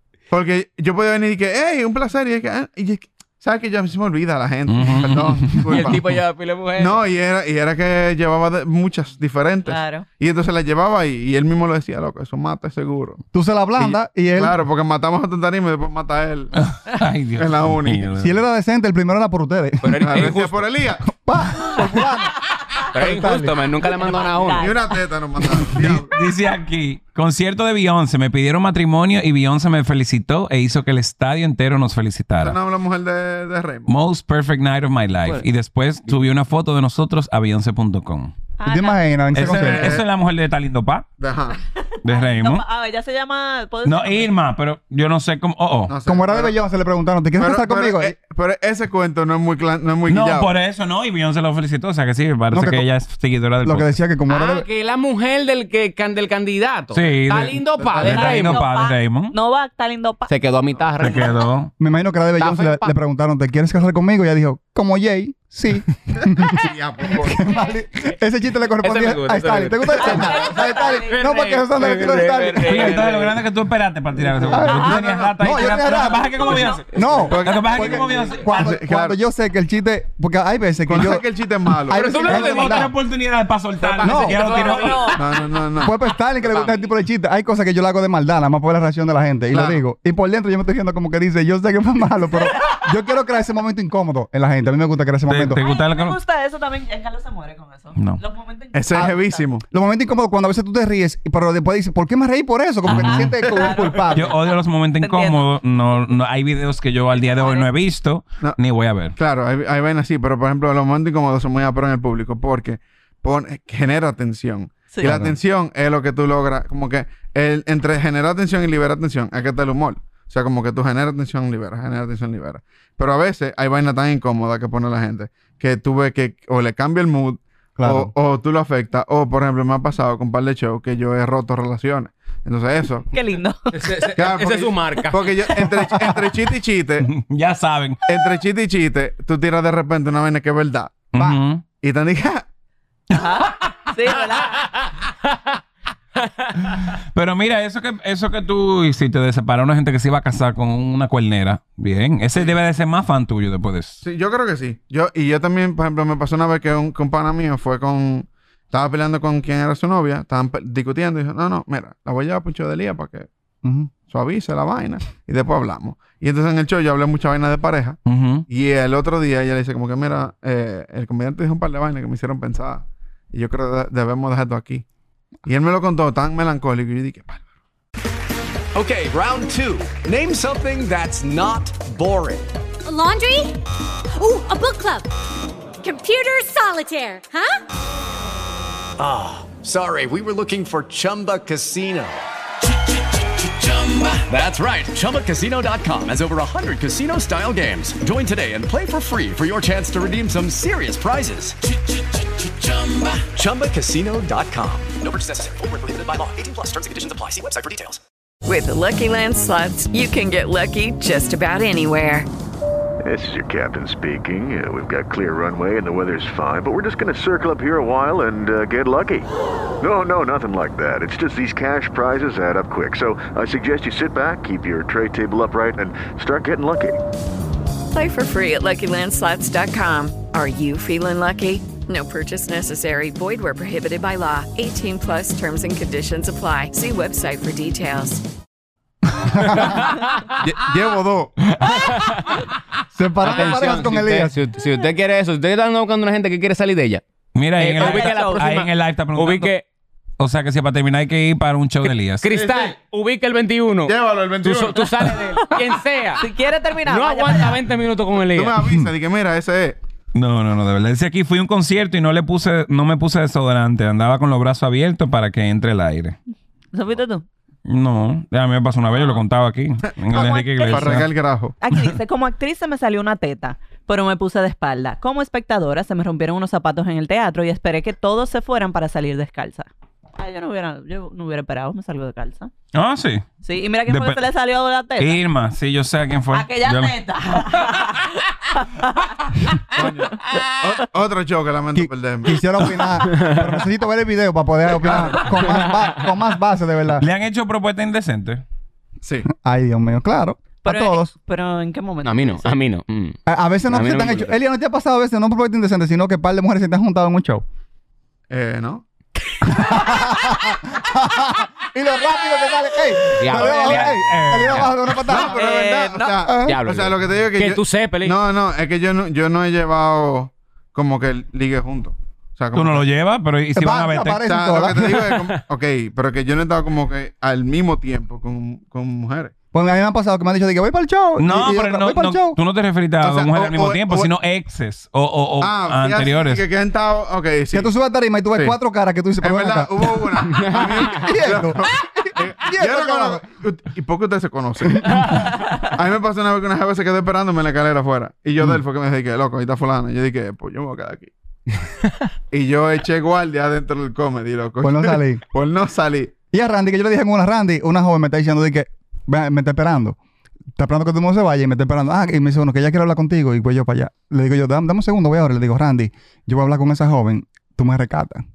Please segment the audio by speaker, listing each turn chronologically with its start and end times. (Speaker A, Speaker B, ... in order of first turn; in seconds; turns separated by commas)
Speaker A: 0.3-6.1, Speaker B: 4.7-6.0, Speaker C: 5.7-7.0, Speaker A: 6.8-13.2, Speaker D: 9.7-10.1, Speaker E: 13.3-14.6, Speaker A: 13.8-16.5, Speaker B: 16.6-18.4, Speaker A: 17.4-18.1, Speaker E: 18.2-20.4, Speaker C: 19.8-20.6, Speaker A: 20.0-21.1, Speaker E: 21.1-22.4, Speaker C: 22.9-24.7, Speaker E: 22.9-23.6, Speaker D: 23.9-24.9, Speaker A: 24.6-26.1, Speaker B: 25.8-32.6, Speaker A: 32.4-33.9, Speaker B: 33.9-38.3, Speaker D: 38.6-39.0, Speaker E: 38.7-40.0, Speaker B: 39.3-41.1, Speaker A: 39.4-40.1, Speaker A: 41.2-41.6, Speaker D: 41.7-44.3, Speaker B: 42.0-42.6, Speaker B: 43.9-45.9, Speaker A: 45.9-46.5, Speaker E: 46.0-48.1, Speaker A: 47.4-50.5, Speaker B: 50.1-54.0, Speaker E: 52.5-52.9, Speaker E: 53.6-54.7, Speaker C: 54.3-58.6, Speaker B: 56.9-59.3, Speaker A: 57.8-58.3, Speaker D: 58.0-60.3, Speaker C: 60.3-61.3, Speaker B: 61.0-61.7, Speaker E: 61.8-73.0, Speaker C: 62.4-62.9, Speaker A: 66.2-67.5, Speaker C: 68.8-73.4, Speaker D: 70.0-71.2, Speaker B: 72.7-78.7, Speaker E: 74.5-82.9, Speaker A: 74.5-75.3, Speaker D: 76.4-76.8, Speaker A: 77.3-79.2, Speaker A: 80.9-82.4, Speaker C: 81.9-82.9, Speaker B: 82.3-85.2, Speaker C: 83.8-85.2, Speaker D: 84.0-85.2, Speaker E: 84.0-84.4, Speaker A: 85.2-85.9, Speaker E: 85.8-95.6, Speaker C: 86.4-86.8, Speaker A: 89.5-89.8, Speaker D: 92.4-92.8, Speaker B: 95.3-96.2, Speaker D: 95.6-99.5, Speaker B: 98.0-98.2, Speaker A: 98.7-99.6, Speaker E: 99.7-104.3, Speaker B: 102.9-103.4, Speaker D: 102.9-104.4, Speaker B: 104.1-109.2, Speaker D: 105.0-105.4, Speaker D: 107.2-107.7, Speaker A: 109.2-133.1, Speaker D: 114.9-115.2, Speaker E: 127.8-128.1, Speaker D: 133.1-134.1, Speaker C: 133.7-135.3, Speaker A: 134.2-137.1, Speaker B: 137.0-138.0, Speaker A: 138.1-141.0, Speaker B: 141.1-141.6, Speaker A: 141.8-142.5, Speaker D: 143.1-144.6, Speaker B: 146.7-154.0, Speaker A: 154.0-163.3, Speaker E: 163.6-163.9, Speaker A: 164.1-174.8, Speaker B: 168.1-168.5, Speaker A: 175.5-177.4, Speaker F: 178.7-182.5, Speaker G: 182.8-183.6, Speaker G: 184.1-185.1, Speaker G: 185.8-187.6, Speaker F: 189.0-192.2, Speaker F: 193.2-208.0, Speaker H: 208.4-212.3, Speaker I: 213.0-219.3, Speaker I: 219.8-227.0, Speaker H: 227.9-238.2, Speaker C: 239.5-240.3, Speaker A: 240.4-241.3, Speaker C: 241.7-242.4, Speaker E: 242.9-244.3, Speaker C: 243.2-247.0, Speaker B: 247.3-249.5, Speaker C: 247.6-249.7, Speaker D: 247.8-248.5, Speaker B: 250.2-252.3, Speaker C: 252.2-256.3, Speaker A: 252.3-252.7, Speaker A: 253.9-255.2, Speaker D: 256.2-257.6, Speaker C: 256.9-258.5, Speaker A: 258.3-259.8, Speaker E: 258.6-258.9, Speaker B: 260.1-266.2, Speaker D: 266.7-267.2, Speaker B: 267.7-271.1, Speaker D: 270.1-271.1, Speaker A: 270.1-271.6, Speaker D: 271.6-282.5, Speaker B: 282.7-283.3, Speaker D: 283.4-285.2, Speaker B: 283.9-284.2, Speaker B: 285.0-287.7, Speaker D: 286.3-289.3, Speaker A: 289.8-292.4, Speaker E: 291.8-297.1, Speaker C: 293.1-293.4, Speaker A: 294.8-295.5, Speaker B: 297.0-298.4, Speaker A: 299.0-299.3, Speaker E: 299.3-301.1, Speaker D: 300.6-302.5, Speaker C: 302.0-303.2, Speaker E: 303.3-307.4, Speaker C: 303.7-304.4, Speaker A: 308.3-308.8, Speaker E: 309.5-315.5, Speaker C: 313.2-314.0, Speaker B: 313.3-314.9, Speaker A: 315.1-322.9, Speaker D: 315.2-316.3, Speaker E: 316.2-316.6, Speaker C: 316.4-318.2, Speaker B: 322.5-324.2, Speaker E: 323.6-325.1, Speaker A: 324.2-329.3, Speaker E: 329.5-332.4, Speaker B: 331.2-336.4, Speaker A: 333.0-334.1, Speaker A: 335.4-337.7, Speaker E: 337.5-343.2, Speaker A: 339.2-351.1, Speaker C: 340.3-341.1, Speaker E: 344.8-345.1, Speaker A: 352.3-356.1, Speaker E: 354.6-355.2, Speaker E: 356.3-360.0, Speaker E: 360.6-368.2